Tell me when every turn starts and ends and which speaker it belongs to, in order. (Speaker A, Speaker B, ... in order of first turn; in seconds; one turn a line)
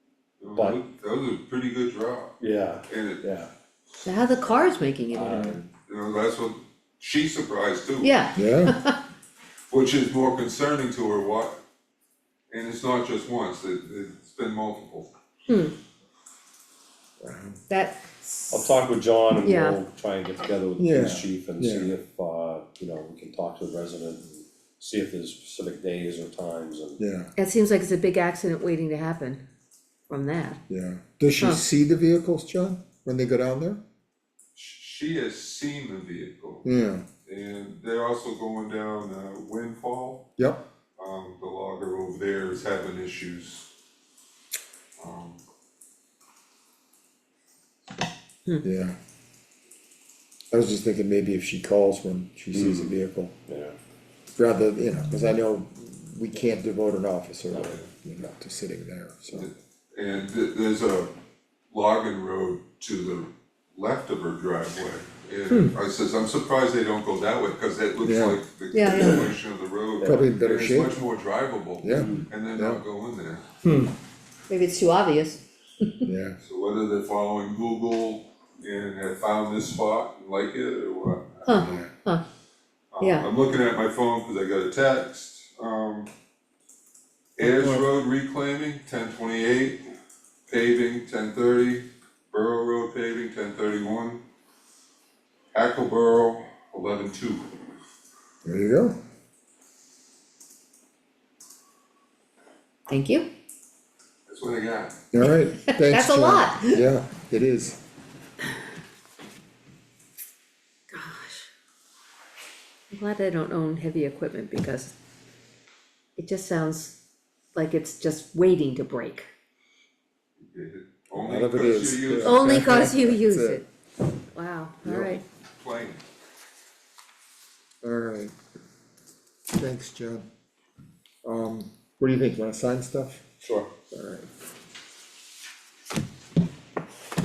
Speaker A: 0.4-2.4
Speaker B: 0.5-0.8
Speaker B: 2.4-3.5
Speaker A: 2.9-3.2
Speaker C: 4.0-5.4
Speaker B: 5.1-5.7
Speaker D: 5.2-5.6
Speaker A: 5.9-8.2
Speaker C: 8.0-9.0
Speaker D: 8.3-8.8
Speaker A: 9.7-11.6
Speaker A: 12.5-15.1
Speaker C: 15.5-15.7
Speaker D: 17.2-17.6
Speaker C: 17.7-18.5
Speaker B: 18.5-27.0
Speaker C: 19.4-19.8
Speaker D: 20.8-21.9
Speaker D: 27.0-27.3
Speaker C: 27.4-29.4
Speaker C: 30.1-30.6
Speaker D: 30.7-33.8
Speaker A: 34.5-36.6
Speaker D: 36.6-37.0
Speaker A: 37.2-40.3
Speaker A: 41.0-43.7
Speaker A: 45.0-45.4
Speaker D: 48.6-49.0
Speaker D: 50.5-53.4
Speaker B: 52.5-52.9
Speaker B: 53.5-53.8
Speaker D: 54.3-59.5
Speaker A: 57.6-57.9
Speaker A: 59.3-61.1
Speaker A: 61.7-73.4
Speaker D: 65.5-65.8
Speaker D: 68.0-68.4
Speaker C: 68.7-69.3
Speaker B: 70.0-70.3
Speaker D: 70.0-71.0
Speaker D: 71.8-72.8
Speaker B: 71.9-72.3
Speaker D: 73.6-73.9
Speaker C: 74.5-76.1
Speaker D: 76.0-76.4
Speaker A: 76.4-81.7
Speaker C: 81.5-82.2
Speaker D: 81.6-81.9
Speaker A: 82.9-86.1
Speaker C: 83.0-83.3
Speaker A: 87.4-89.8
Speaker D: 87.4-87.9
Speaker A: 90.5-94.2
Speaker A: 95.5-97.5
Speaker D: 98.4-99.0
Speaker C: 102.9-103.3
Speaker A: 104.3-105.0
Speaker D: 105.1-107.8
Speaker C: 105.2-106.8
Speaker C: 110.9-111.5
Speaker C: 112.9-114.9
Speaker C: 116.2-117.0
Speaker C: 117.5-119.3
Speaker A: 120.4-122.7
Speaker D: 121.1-123.6
Speaker C: 122.2-123.7
Speaker C: 124.3-125.2
Speaker D: 124.8-125.2
Speaker A: 125.6-126.0
Speaker D: 127.8-128.3
Speaker D: 129.5-130.3
Speaker D: 131.2-133.2
Speaker A: 133.4-133.7
Speaker D: 133.9-134.3